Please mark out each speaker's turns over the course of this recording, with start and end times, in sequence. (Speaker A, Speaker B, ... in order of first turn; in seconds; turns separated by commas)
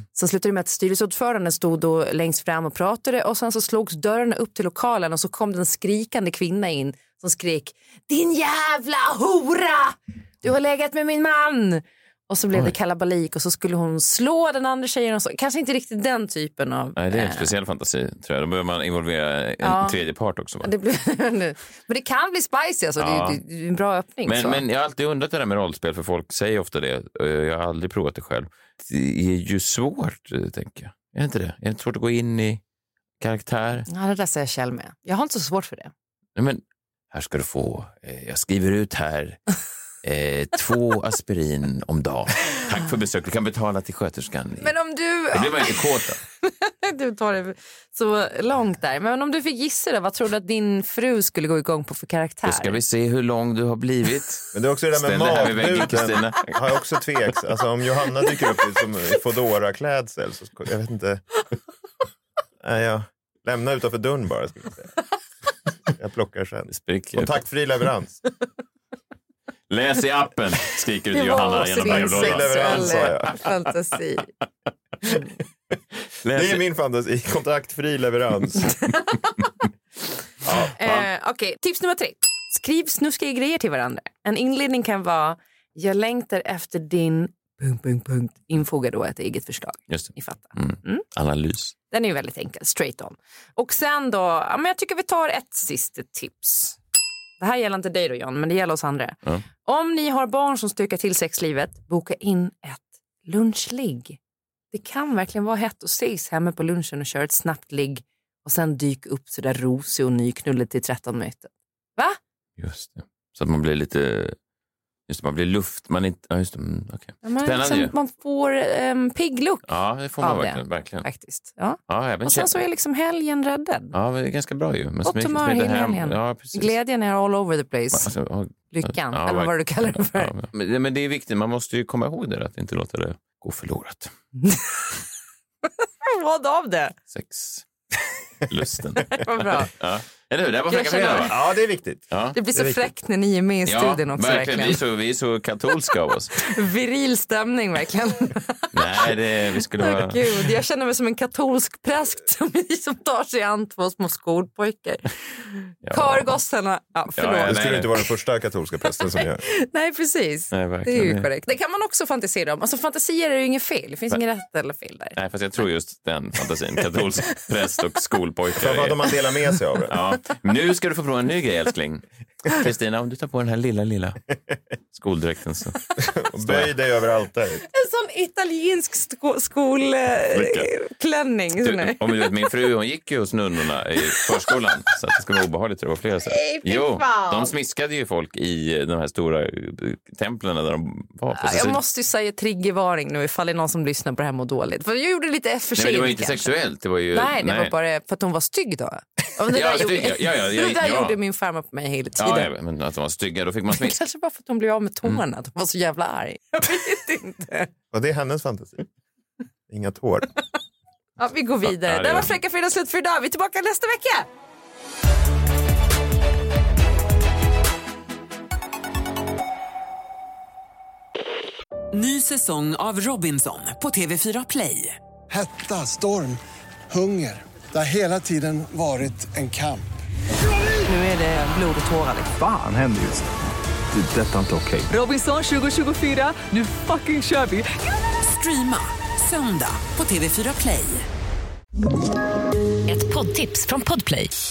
Speaker A: 0.1-17.5, Speaker B: 16.9-20.7, Speaker A: 19.6-20.0, Speaker A: 20.6-24.6, Speaker B: 23.0-23.4, Speaker B: 24.3-32.6, Speaker B: 33.2-33.9, Speaker A: 33.9-35.9, Speaker B: 36.4-39.4, Speaker B: 40.0-44.7, Speaker A: 44.6-45.8, Speaker B: 45.3-46.2, Speaker A: 46.4-52.8, Speaker B: 52.4-56.6, Speaker C: 54.5-61.2, Speaker C: 62.6-64.9, Speaker C: 65.9-68.2, Speaker B: 66.7-67.4, Speaker B: 69.7-73.1, Speaker A: 71.1-74.3, Speaker C: 71.8-73.4, Speaker B: 76.2-76.6, Speaker C: 76.3-78.7, Speaker A: 80.7-91.0, Speaker B: 89.9-91.7, Speaker A: 91.9-96.8, Speaker A: 97.4-104.2, Speaker A: 104.7-112.2, Speaker B: 112.6-114.3, Speaker B: 115.1-117.9, Speaker A: 117.2-119.6, Speaker B: 119.7-121.0, Speaker A: 120.2-123.9, Speaker B: 121.9-122.6, Speaker B: 123.9-126.7, Speaker A: 125.0-128.1, Speaker B: 127.9-134.1, Speaker A: 128.7-130.3, Speaker A: 134.4-134.7, Speaker A: 135.8-136.9, Speaker B: 137.1-137.6, Speaker B: 138.5-141.3, Speaker A: 139.1-139.7, Speaker A: 140.7-141.3, Speaker C: 141.1-142.8, Speaker B: 142.1-142.3, Speaker A: 142.3-144.8, Speaker B: 143.7-146.4, Speaker A: 146.4-149.1, Speaker B: 148.7-150.4, Speaker A: 149.8-157.6, Speaker B: 155.8-156.4, Speaker B: 157.2-157.9, Speaker C: 157.4-159.4, Speaker A: 159.2-165.2, Speaker B: 160.5-161.3, Speaker B: 165.2-169.1, Speaker C: 168.6-169.9, Speaker B: 169.9-174.2, Speaker B: 174.9-175.8, Speaker C: 176.0-177.6, Speaker B: 176.4-176.7, Speaker A: 177.7-182.3, Speaker B: 180.3-180.7, Speaker B: 181.6-191.8, Speaker A: 186.3-187.5, Speaker A: 191.3-196.5, Speaker B: 195.8-197.7, Speaker A: 197.1-202.5, Speaker B: 199.5-201.2, Speaker B: 202.2-204.0, Speaker A: 203.7-207.7, Speaker C: 207.9-208.8, Speaker C: 209.7-210.3, Speaker A: 211.2-214.3, Speaker B: 211.6-212.3, Speaker D: 221.9-225.0, Speaker E: 225.3-229.9, Speaker D: 231.2-231.9, Speaker F: 232.3-233.3, Speaker F: 233.9-234.9, Speaker D: 234.9-241.1, Speaker D: 242.8-244.3